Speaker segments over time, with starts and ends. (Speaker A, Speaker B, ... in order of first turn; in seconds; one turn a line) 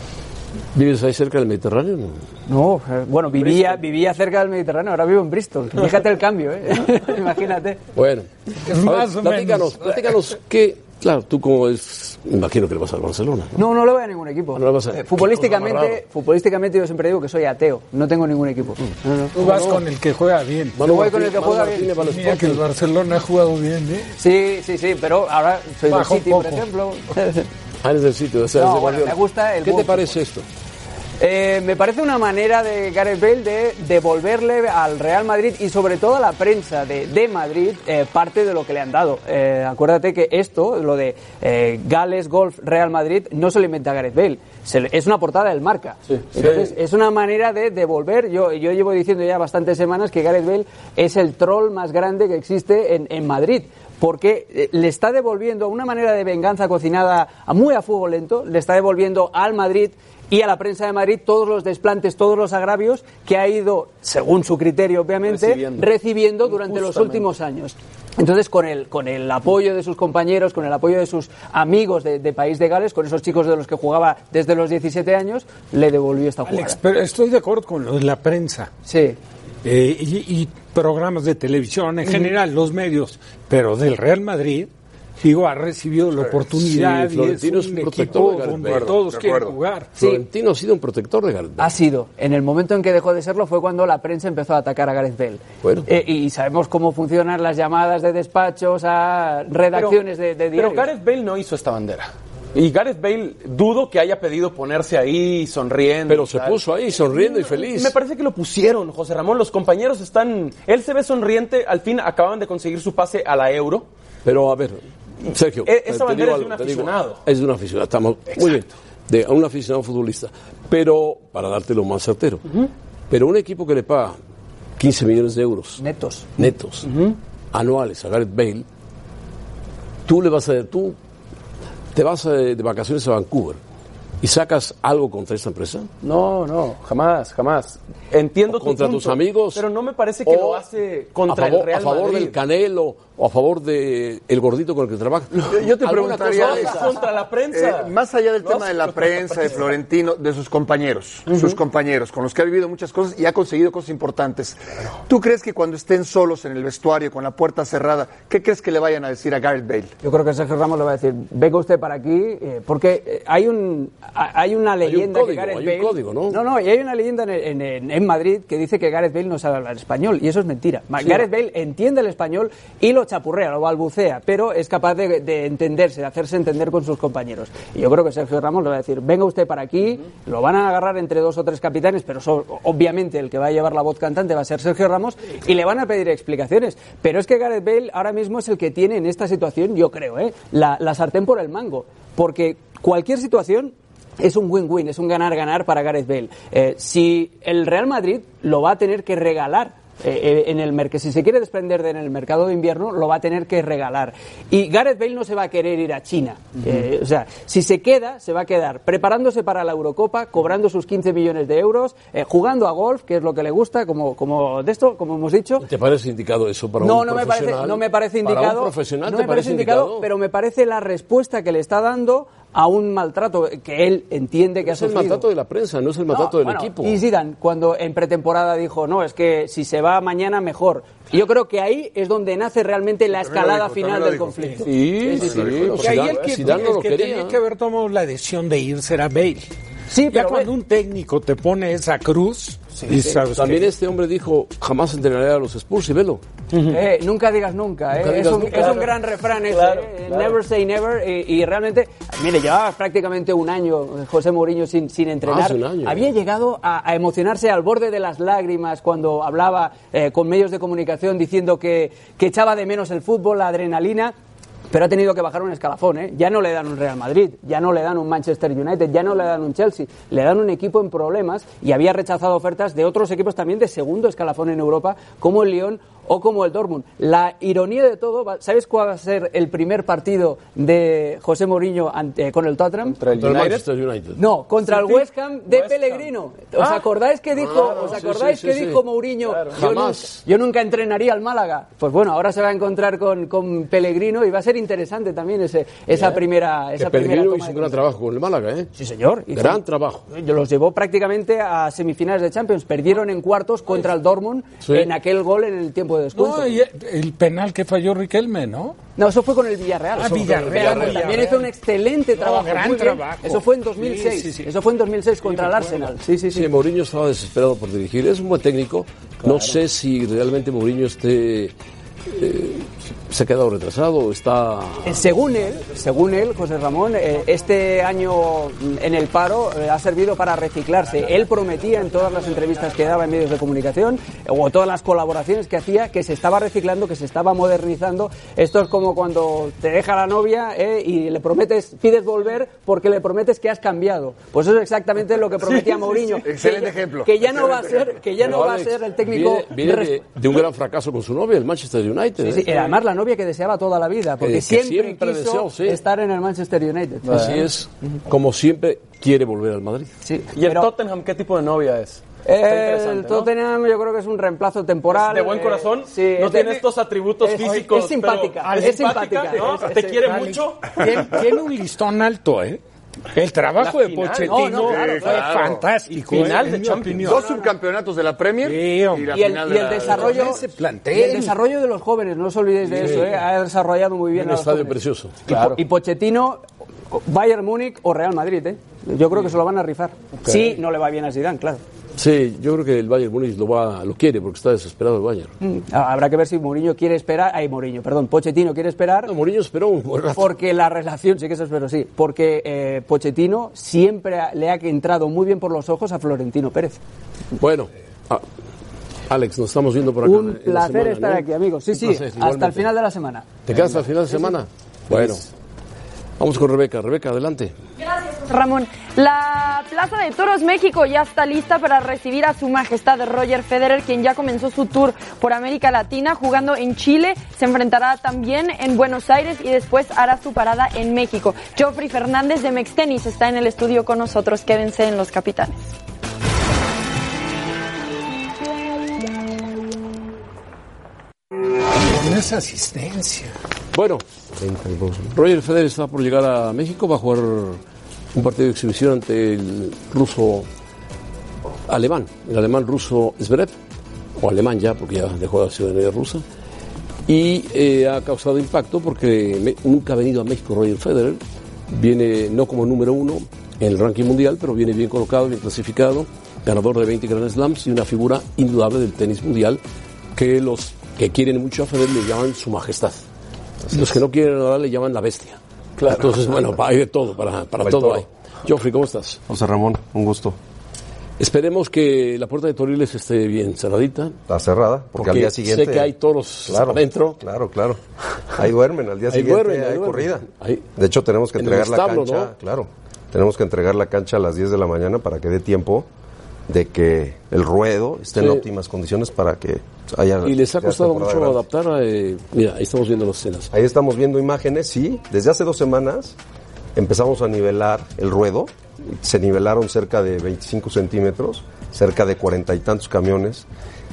Speaker A: 0.7-2.2
Speaker B: 2.5-7.8
Speaker C: 3.4-3.8
Speaker A: 8.0-13.7
Speaker D: 8.7-10.1
Speaker B: 13.6-19.4
Speaker A: 14.5-16.0
Speaker D: 19.3-20.8
Speaker A: 19.4-19.8
Speaker A: 20.8-22.6
Speaker B: 20.8-21.9
Speaker D: 22.0-24.1
Speaker B: 24.2-27.5
Speaker D: 25.9-26.7
Speaker A: 27.8-30.5
Speaker B: 28.5-30.2
Speaker B: 31.2-76.8
Speaker C: 65.2-65.9
Speaker C: 66.4-67.3
Speaker D: 76.5-78.7
Speaker B: 78.8-79.2
Speaker D: 79.6-84.7
Speaker D: 85.2-89.9
Speaker A: 86.6-89.0
Speaker E: 88.6-89.6
Speaker B: 90.0-90.2
Speaker A: 90.0-91.7
Speaker B: 91.6-100.9
Speaker A: 95.6-95.9
Speaker C: 99.7-113.9
Speaker A: 106.1-108.0
Speaker A: 114.2-122.5
Speaker C: 115.6-117.2
Speaker A: 123.1-124.2
Speaker A: 124.8-125.8
Speaker B: 125.8-126.3
Speaker A: 126.4-126.9
Speaker C: 126.9-127.2
Speaker A: 127.5-128.7
Speaker A: 130.1-131.0
Speaker A: 131.9-133.6
Speaker A: 134.2-135.9
Speaker C: 136.0-142.4
Speaker A: 138.5-139.7
Speaker A: 140.2-140.7
Speaker A: 141.2-147.0
Speaker C: 145.4-149.7
Speaker E: 145.5-146.9
Speaker E: 147.5-159.9
Speaker B: 160.0-215.7
Speaker A: 164.8-166.4
Speaker A: 215.6-220.1
Speaker B: 216.8-225.3
Speaker A: 224.6-227.0
Speaker B: 226.1-234.7
Speaker E: 233.2-235.9
Speaker A: 234.7-237.4
Speaker C: 234.7-236.6
Speaker D: 235.8-239.5
Speaker B: 239.9-240.5
Speaker D: 240.1-243.7
Speaker A: 243.3-246.2
Speaker C: 246.5-246.8
Speaker B: 246.7-264.1
Speaker A: 247.9-248.9
Speaker C: 248.4-250.4
Speaker A: 255.2-256.1
Speaker B: 264.7-283.0
Speaker C: 282.9-283.7
Speaker A: 283.1-284.2
Speaker B: 284.2-297.8
Speaker C: 284.6-286.9
Speaker A: 287.3-288.8
Speaker C: 287.6-288.1
Speaker C: 289.2-289.6
Speaker A: 289.5-290.2
Speaker A: 296.8-298.7
Speaker B: 298.8-306.6
Speaker A: 299.3-300.0
Speaker A: 304.6-304.9
Speaker D: 306.1-308.8
Speaker B: 309.0-316.5
Speaker D: 309.9-311.5
Speaker A: 310.6-310.9
Speaker D: 312.1-314.5
Speaker D: 315.2-315.9
Speaker A: 316.3-321.5
Speaker A: 322.1-325.1
Speaker B: 324.9-350.0
Speaker C: 345.4-346.3
Speaker E: 346.2-348.0
Speaker A: 348.2-352.6
Speaker B: 352.2-357.4
Speaker A: 354.2-355.8
Speaker C: 357.1-357.4
Speaker A: 357.1-359.9
Speaker B: 360.0-360.7
Speaker C: 360.3-363.3
Speaker B: 362.2-366.7
Speaker C: 364.9-371.2
Speaker B: 367.2-370.4
Speaker D: 368.4-372.6
Speaker D: 373.1-377.3
Speaker C: 373.6-375.3
Speaker B: 374.2-375.3
Speaker E: 374.6-375.6
Speaker C: 375.9-377.2
Speaker E: 377.0-380.4
Speaker D: 378.4-379.3
Speaker B: 379.1-391.6
Speaker D: 379.9-381.4
Speaker A: 382.7-383.1
Speaker A: 384.1-385.2
Speaker C: 385.3-385.6
Speaker A: 392.0-395.3
Speaker B: 395.4-399.1
Speaker A: 399.1-400.3
Speaker B: 400.2-406.8
Speaker A: 407.4-408.2
Speaker A: 409.1-412.7
Speaker B: 410.0-413.4
Speaker A: 413.5-415.2
Speaker A: 416.2-417.5
Speaker F: 417.8-435.8
Speaker D: 441.8-443.3
Speaker A: 443.7-444.0
Speaker G: 444.4-445.1
Speaker A: 445.1-447.6
Speaker A: 448.1-450.5
Speaker A: 451.7-453.6
Speaker A: 454.2-456.2
Speaker A: 457.1-469.6
Speaker A: 470.1-473.1
Speaker A: 473.7-479.2
Speaker C: 475.8-476.1
Speaker G: 477.6-478.0
Speaker G: 479.3-480.4
Speaker A: 481.2-484.2
Speaker G: 484.3-485.9
Speaker A: 484.9-487.2
Speaker G: 486.5-487.8
Speaker G: 488.4-490.3
Speaker A: 489.1-490.7
Speaker G: 490.8-495.9
Speaker A: 491.4-492.3
Speaker G: 496.5-501.4
Speaker A: 498.2-498.4
Speaker A: 500.2-503.5
Speaker G: 503.5-506.2
Speaker G: 506.8-513.5